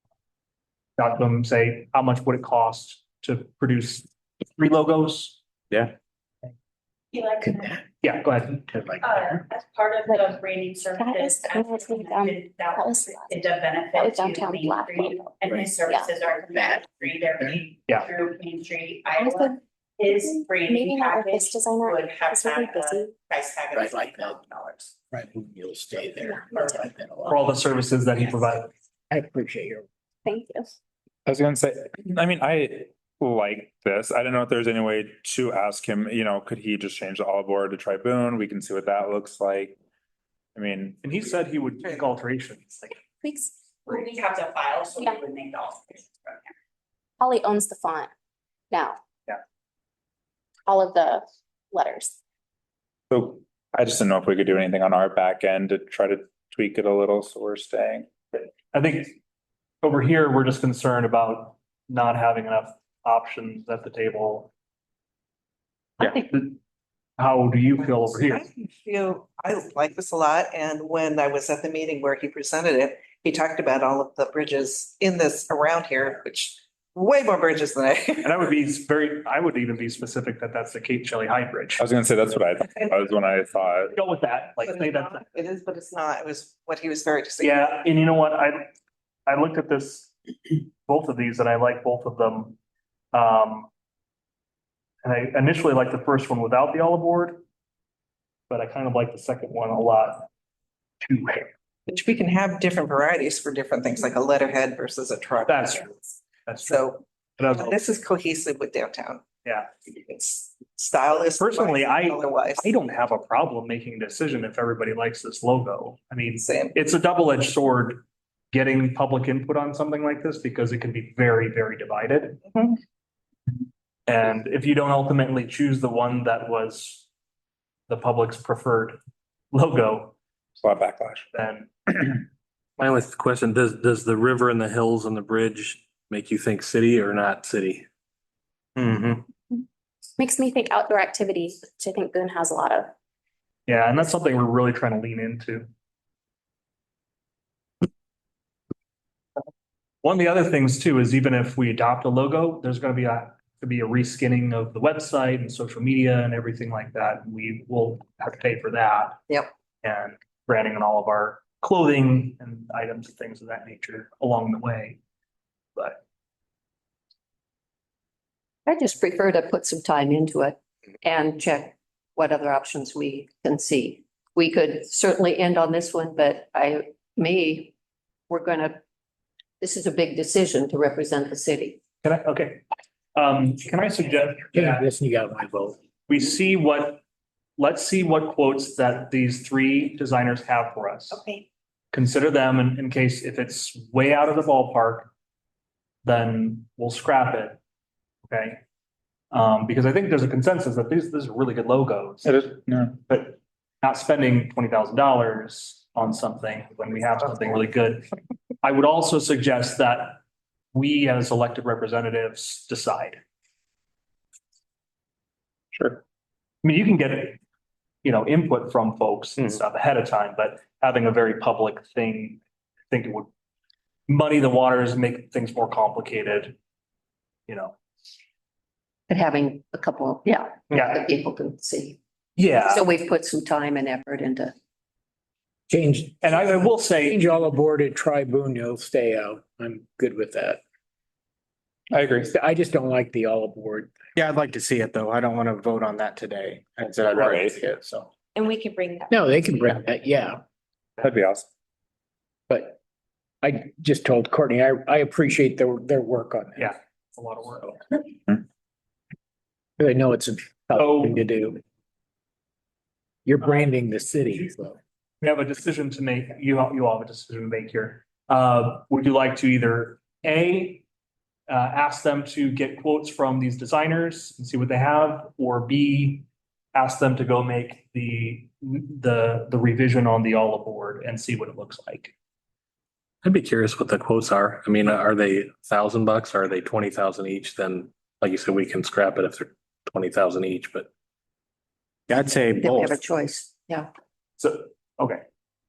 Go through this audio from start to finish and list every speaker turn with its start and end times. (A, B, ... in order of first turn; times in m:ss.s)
0:01.0-0:05.4 A
0:07.1-0:07.8 B
0:07.4-0:07.8 C
0:08.0-0:08.6 A
0:08.6-0:09.2 C
0:09.0-0:24.9 B
0:10.1-0:10.4 D
0:11.0-0:13.4 D
0:13.9-0:16.1 D
0:19.2-0:23.1 D
0:23.7-0:24.4 C
0:25.1-0:27.5 C
0:27.3-0:28.7 A
0:29.1-0:29.8 C
0:30.2-0:30.7 D
0:31.2-0:39.8 E
0:40.5-0:41.1 E
0:41.0-0:43.0 A
0:43.2-0:43.5 D
0:43.9-0:46.4 B
0:47.2-0:48.1 D
0:48.7-0:49.0 D
0:50.7-0:52.1 D
0:53.1-0:58.1 E
0:58.7-0:59.2 A
0:59.8-1:04.5 A
1:06.0-1:06.6 A
1:07.2-1:08.4 A
1:08.0-1:18.3 F
1:18.2-1:21.8 A
1:21.8-1:23.9 E
1:23.9-1:25.3 A
1:24.6-1:27.7 F
1:27.4-1:28.7 A
1:29.3-1:30.1 A
1:30.8-1:32.6 A
1:33.1-1:33.7 A
1:35.0-1:37.4 A
1:38.5-1:40.3 A
1:41.0-1:41.5 A
1:41.9-1:45.9 F
1:45.5-1:47.8 A
1:46.7-1:49.2 F
1:49.4-1:49.7 A
1:49.9-1:52.7 F
1:51.4-2:02.4 A
1:56.4-1:56.7 F
2:04.1-2:07.1 A
2:07.9-2:09.0 A
2:09.5-2:10.2 A
2:10.6-2:11.2 E
2:11.3-2:11.7 A
2:12.8-2:17.8 G
2:20.2-2:22.9 D
2:23.7-2:25.7 A
2:30.0-2:39.3 A
2:39.8-2:45.0 A
2:48.6-2:57.7 H
2:58.3-2:58.8 H
2:59.6-3:01.8 H
3:02.0-3:02.6 A
3:03.2-3:04.8 A
3:04.5-3:05.8 C
3:06.1-3:07.0 A
3:07.6-3:11.2 A
3:11.2-3:11.4 B
3:11.9-3:15.1 A
3:16.0-3:17.6 A
3:18.2-3:18.6 A
3:19.3-3:28.0 A
3:22.2-3:23.0 E
3:28.6-3:30.2 A
3:30.7-3:33.2 A
3:35.7-3:36.0 E
3:36.6-3:37.4 A
3:38.0-3:43.3 A
3:44.1-3:46.6 A
3:47.5-3:47.8 A
3:49.1-3:52.0 H
3:50.7-3:51.0 A
3:52.4-3:52.8 A
3:52.5-3:54.5 H
3:55.7-4:00.6 C
3:56.2-3:57.2 A
4:01.9-4:02.3 E
4:02.2-4:04.0 C
4:04.2-4:08.1 I
4:07.2-4:07.6 E
4:08.4-4:09.1 B
4:09.1-4:10.4 C
4:11.0-4:11.4 E
4:12.5-4:12.8 C
4:13.4-4:16.7 C
4:16.6-4:17.8 A
4:19.8-4:21.6 C
4:20.8-4:21.2 A
4:23.2-4:24.8 C
4:25.2-4:30.8 A
4:31.5-4:42.1 A
4:43.2-4:50.9 G
4:52.1-4:53.0 I
4:52.6-4:53.9 H
4:54.4-4:55.2 A